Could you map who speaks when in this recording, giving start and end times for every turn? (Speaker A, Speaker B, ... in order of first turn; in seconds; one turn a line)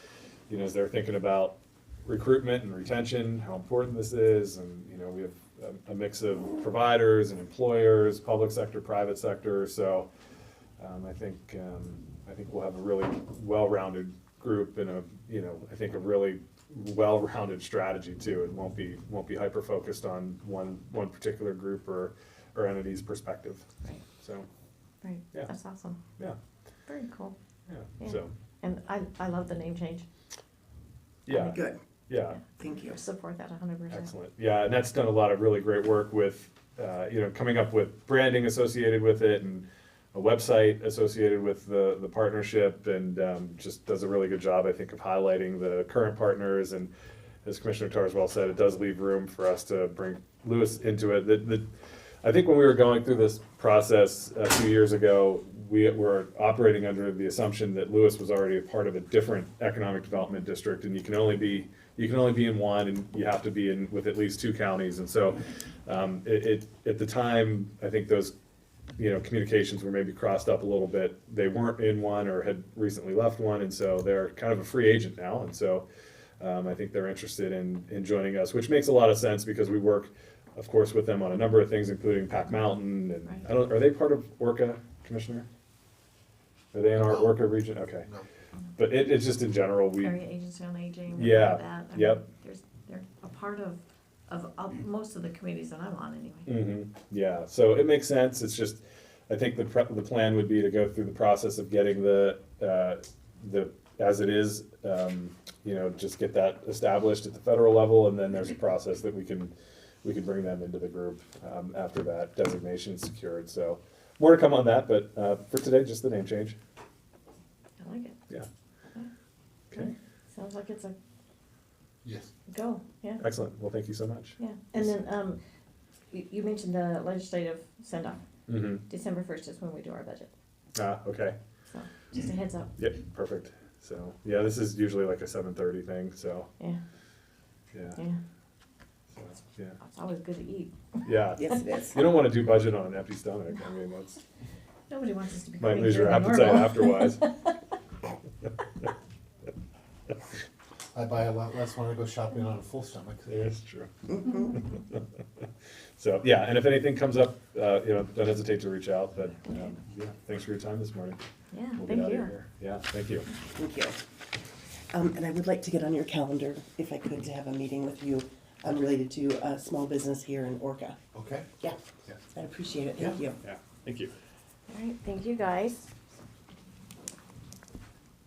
Speaker A: 0.5-10.1
Speaker A: 10.8-24.5
Speaker B: 25.0-26.0
Speaker B: 26.9-27.4
Speaker A: 27.7-28.3
Speaker B: 28.0-30.0
Speaker A: 31.2-32.4
Speaker B: 31.3-31.6
Speaker C: 31.5-31.8
Speaker C: 32.6-33.0
Speaker B: 32.8-34.1
Speaker A: 33.9-46.9
Speaker A: 47.4-51.6
Speaker A: 52.2-68.3
Speaker A: 69.0-75.8
Speaker A: 76.4-85.5
Speaker A: 86.7-88.1
Speaker D: 87.0-87.5
Speaker A: 88.8-90.2
Speaker B: 90.0-96.6
Speaker A: 91.1-92.2
Speaker A: 96.5-116.5
Speaker B: 117.8-118.2
Speaker B: 119.7-121.0
Speaker D: 122.0-122.3
Speaker B: 122.5-123.2
Speaker A: 123.2-125.0
Speaker B: 124.4-125.4
Speaker B: 126.1-128.2
Speaker A: 128.5-128.8
Speaker B: 128.8-130.3
Speaker A: 130.7-131.4
Speaker B: 131.7-132.7
Speaker A: 132.8-136.5
Speaker A: 137.7-138.0
Speaker A: 139.1-139.8
Speaker B: 139.8-141.6
Speaker A: 141.0-144.2
Speaker C: 141.4-142.0
Speaker B: 144.9-147.3
Speaker A: 145.6-147.2
Speaker D: 150.9-153.3
Speaker A: 153.3-153.9
Speaker A: 154.5-155.0
Speaker A: 156.0-161.2
Speaker B: 161.5-162.3
Speaker A: 161.8-163.3
Speaker C: 163.5-164.1
Speaker C: 164.9-171.0
Speaker D: 171.1-171.5
Speaker C: 172.3-173.4
Speaker A: 173.4-174.1
Speaker B: 174.7-175.9